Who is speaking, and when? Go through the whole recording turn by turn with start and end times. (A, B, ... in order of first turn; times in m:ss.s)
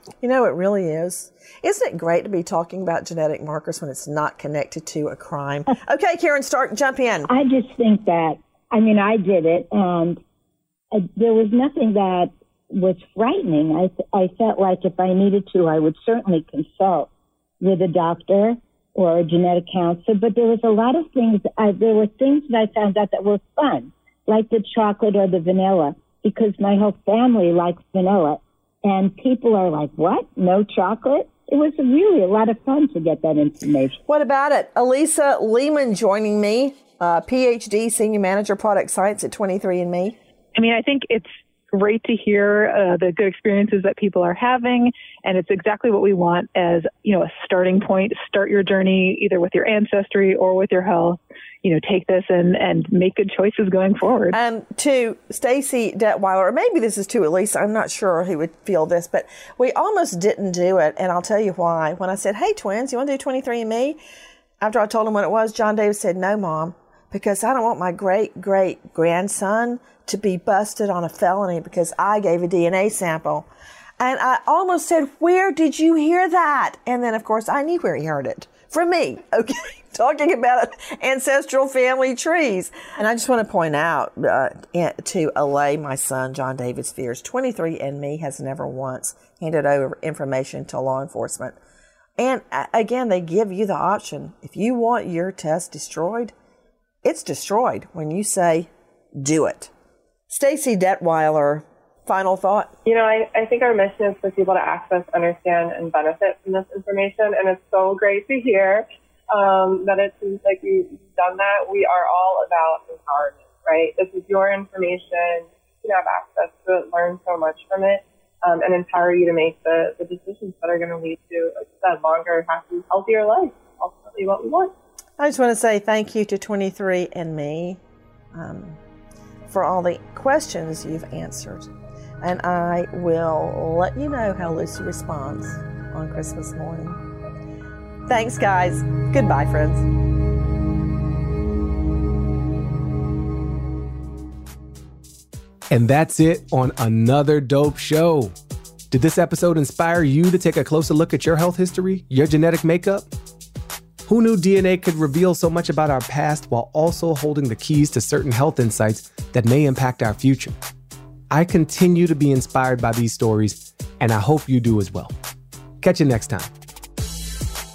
0:00.2-0:07.3 A
0:07.3-0:10.2 B
0:10.9-0:17.1 B
0:17.6-0:34.0 B
0:34.1-0:40.2 A
0:40.5-0:54.4 C
0:54.3-1:04.0 A
1:04.6-1:13.5 A
1:14.0-1:31.6 A
1:32.2-1:36.3 A
1:37.0-1:39.7 A
1:40.3-1:42.7 A
1:42.8-2:04.7 D
2:05.2-2:07.8 A
2:08.3-2:08.8 A
2:09.5-2:11.7 A
2:12.2-2:17.0 A
2:18.1-2:19.8 A
2:25.7-2:28.3 E
2:28.9-2:33.1 E
2:34.1-2:40.6 E
2:41.3-2:45.1 E
2:45.8-2:46.5 E